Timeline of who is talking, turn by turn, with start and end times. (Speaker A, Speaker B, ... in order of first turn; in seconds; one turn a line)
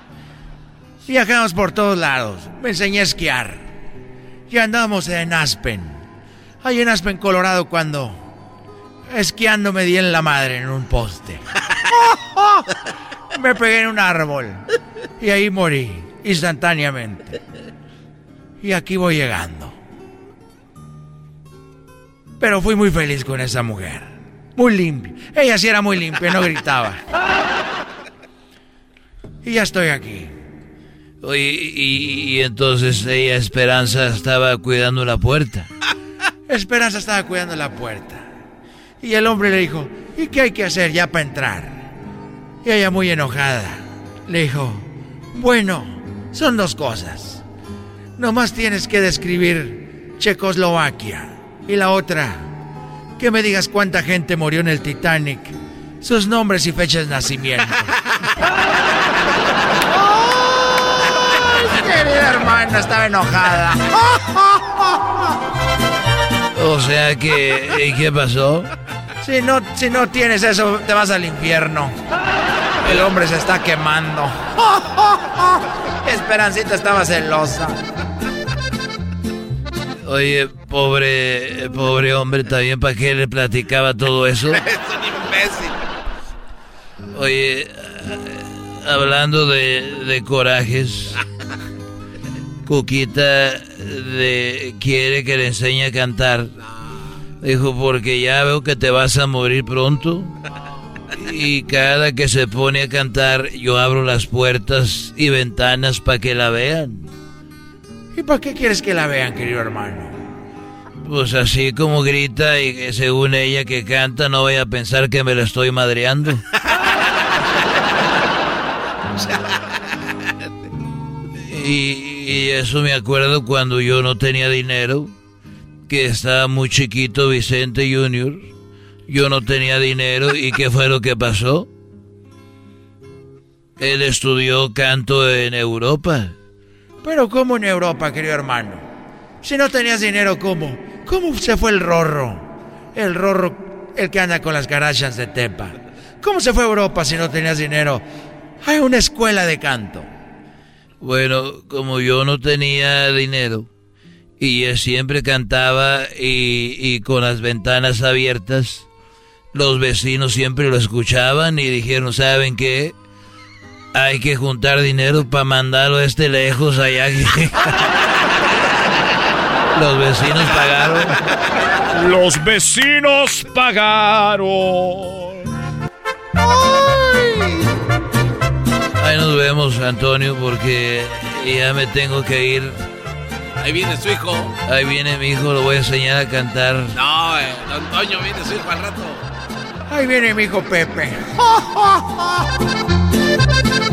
Speaker A: 1.0-3.7
Speaker A: 4.5-6.0
Speaker A: 6.6-8.2
Speaker A: 9.1-12.7
Speaker A: 13.3-14.6
Speaker A: 15.2-17.4
Speaker A: 18.6-19.8
Speaker A: 22.4-27.0
Speaker A: 29.4-30.3
Speaker B: 31.2-35.7
Speaker A: 36.5-38.3
Speaker A: 39.0-41.9
Speaker A: 42.6-47.4
Speaker A: 48.2-52.5
Speaker A: 53.2-57.9
Speaker A: 59.9-64.8
Speaker B: 66.5-68.7
Speaker A: 69.2-72.0
Speaker A: 72.8-75.4
Speaker A: 76.0-77.8
Speaker B: 80.0-84.6
Speaker C: 84.5-85.8
Speaker B: 87.1-91.2
Speaker B: 92.6-96.5
Speaker B: 97.4-100.3
Speaker B: 101.2-107.1
Speaker A: 108.1-110.2
Speaker B: 111.0-116.4
Speaker B: 121.5-125.1
Speaker B: 125.9-128.5
Speaker B: 129.1-131.7
Speaker B: 133.8-136.3
Speaker A: 137.0-138.8
Speaker A: 139.4-148.0
Speaker A: 148.6-150.1
Speaker B: 151.0-153.7
Speaker B: 154.4-158.9
Speaker B: 159.5-162.9
Speaker B: 163.9-167.5
Speaker B: 169.7-171.1
Speaker D: 171.9-175.2
Speaker B: 179.0-182.8
Speaker C: 183.6-184.5
Speaker B: 184.7-186.9
Speaker C: 186.9-189.2
Speaker A: 189.9-191.7